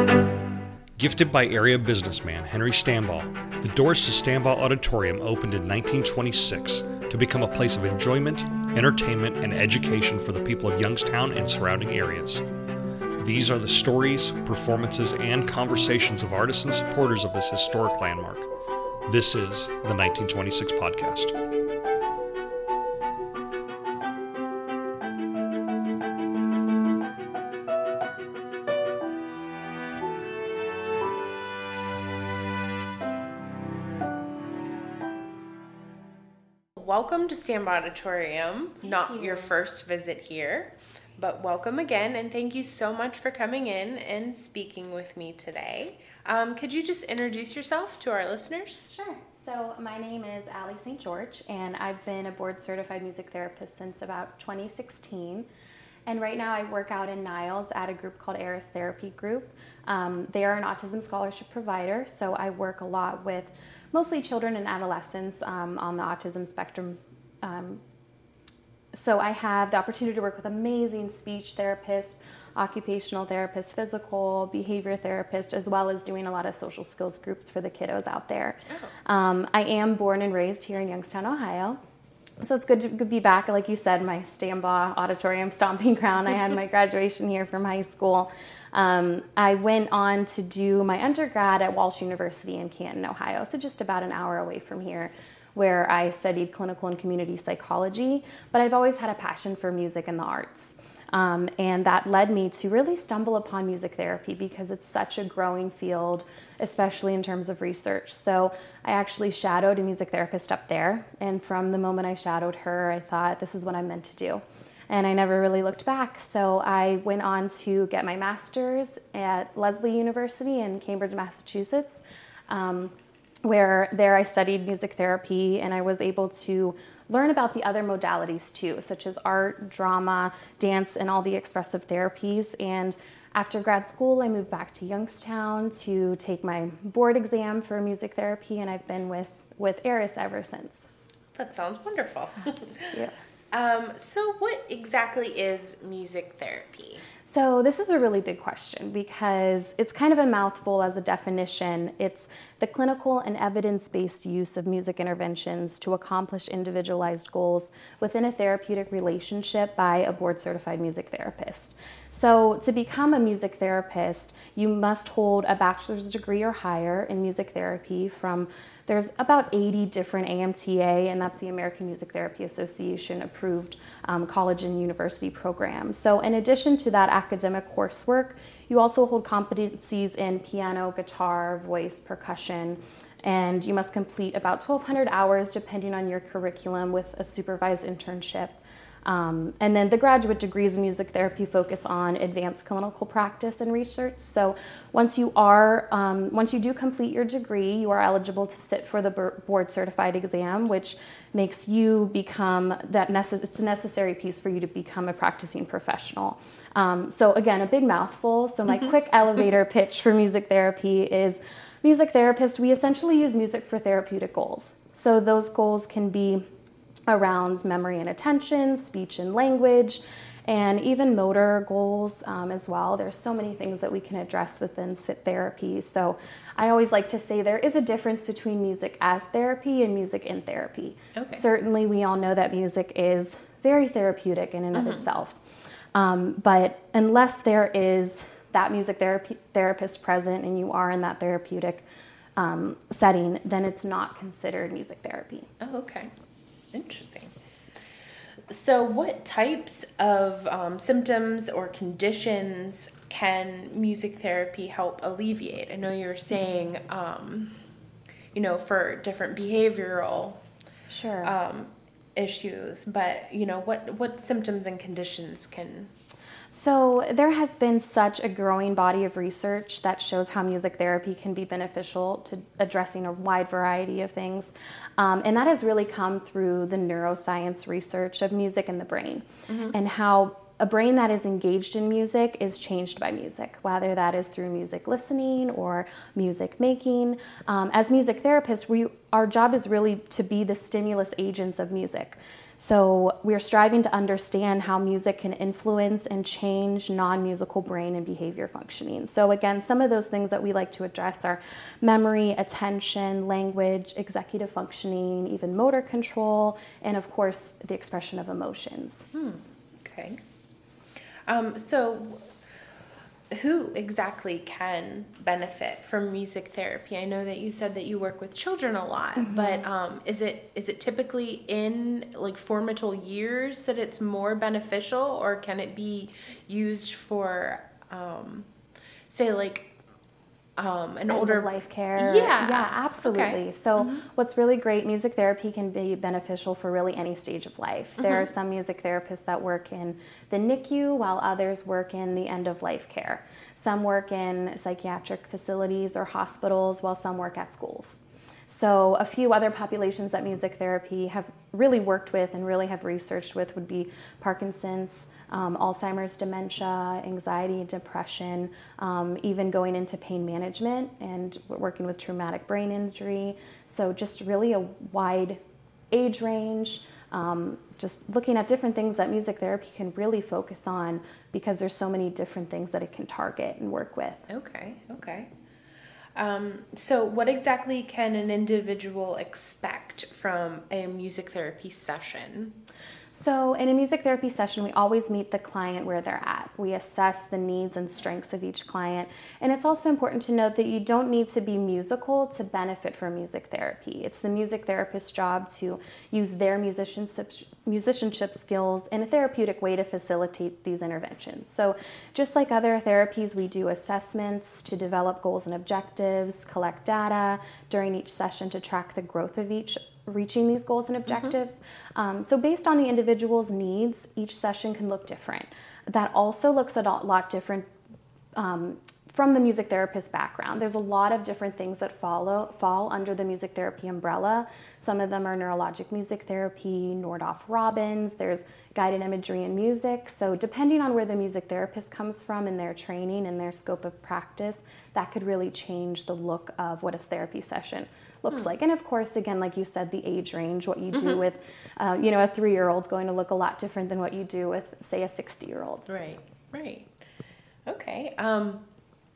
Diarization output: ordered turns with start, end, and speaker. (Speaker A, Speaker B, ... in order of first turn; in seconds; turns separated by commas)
Speaker A: 1.0-12.4, Speaker A: 13.2-18.5, Speaker A: 19.1-21.3, Speaker B: 36.8-48.8, Speaker C: 38.8-39.5, Speaker C: 48.9-55.5, Speaker C: 56.1-67.8, Speaker C: 68.9-81.8, Speaker C: 82.4-140.9, Speaker B: 141.3-143.0, Speaker B: 143.5-147.0, Speaker C: 147.2-216.4, Speaker C: 217.1-235.4, Speaker B: 231.2-231.4, Speaker B: 234.8-235.1, Speaker C: 235.9-241.8, Speaker C: 242.4-245.5, Speaker B: 245.6-246.1, Speaker B: 246.7-247.3, Speaker B: 248.5-257.6, Speaker B: 258.3-260.4, Speaker C: 260.9-261.3, Speaker B: 261.2-265.9, Speaker C: 266.5-309.1, Speaker B: 279.5-279.8, Speaker B: 309.1-310.2, Speaker B: 311.3-312.3, Speaker B: 313.3-328.5, Speaker C: 319.2-319.6, Speaker B: 329.1-329.7, Speaker B: 330.6-334.0, Speaker C: 331.1-365.4, Speaker B: 338.0-338.3, Speaker C: 365.9-374.3, Speaker B: 374.3-375.3, Speaker B: 376.2-382.6, Speaker C: 383.1-417.7, Speaker C: 418.4-445.9, Speaker B: 440.9-441.2, Speaker B: 445.9-446.9, Speaker B: 447.7-448.6